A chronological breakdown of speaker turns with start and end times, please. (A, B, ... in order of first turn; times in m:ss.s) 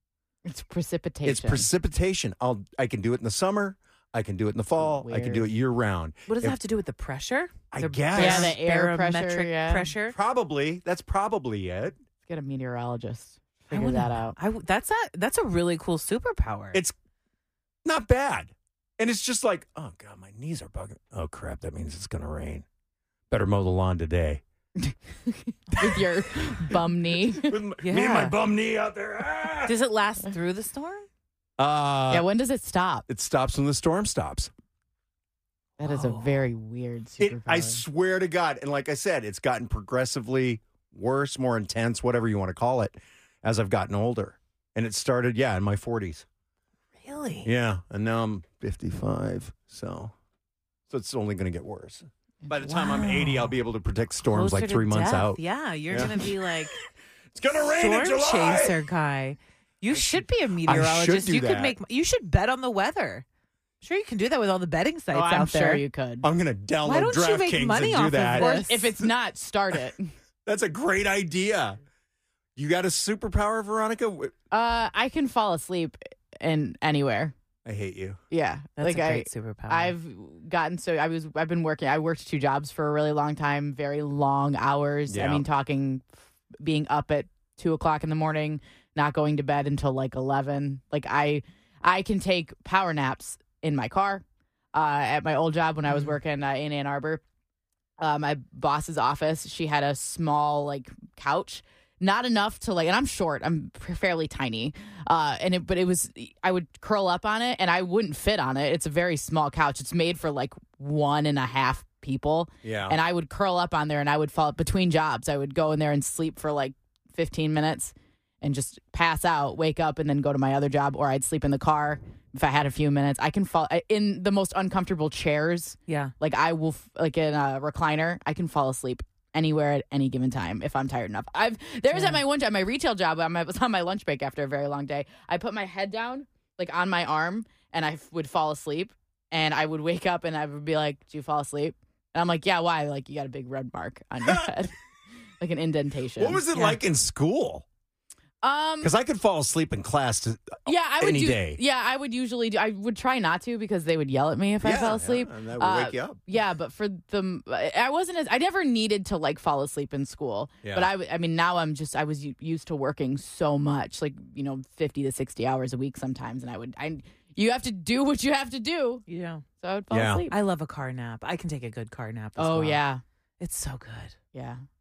0:00.4-0:01.7 A
0:01.2-0:06.6 B
0:04.8-0:05.5 A
0:06.3-0:10.2 C
0:07.7-0:08.6 B
0:08.1-0:09.9 A
0:10.1-0:12.0 B
0:12.2-0:14.4 A
0:13.7-0:16.8 C
0:17.8-0:22.6 B
0:23.3-0:24.4 B
0:24.9-0:27.6 A
0:27.4-0:29.7 B
0:27.8-0:28.4 C
0:29.6-0:31.0 C
0:31.6-0:32.3 B
0:32.1-0:33.0 A
0:33.1-0:34.5 B
0:35.8-0:37.8 A
0:35.8-0:36.5 C
0:37.2-0:46.2 B
0:47.0-0:47.5 C
0:47.4-0:50.1 B
0:50.9-0:56.7 B
0:52.4-0:53.2 A
0:54.2-0:56.8 C
0:57.3-0:58.8 B
0:57.6-1:03.2 C
1:00.6-1:01.8 B
1:03.8-1:05.8 C
1:05.1-1:06.3 A
1:06.2-1:08.7 B
1:06.8-1:09.0 C
1:08.3-1:10.1 A
1:10.4-1:11.8 B
1:12.6-1:14.3 B
1:14.5-1:17.3 A
1:17.6-1:18.2 B
1:18.3-1:37.2 A
1:18.8-1:19.9 C
1:25.1-1:25.4 B
1:35.9-1:36.2 C
1:38.0-2:24.7 A
1:52.6-1:53.0 B
2:05.9-2:06.1 C
2:11.9-2:12.2 C
2:25.4-2:26.4 A
2:26.2-2:27.6 B
2:26.5-2:26.8 C
2:28.4-2:28.9 A
2:28.8-2:31.6 B
2:30.6-2:49.0 A
2:34.6-2:36.2 B
2:40.6-2:40.9 B
2:49.1-2:49.4 C
2:49.6-2:50.3 A
2:49.9-2:50.2 B
2:50.3-2:52.8 C
2:52.4-2:53.0 A
2:53.4-2:54.2 C
2:54.3-2:54.6 A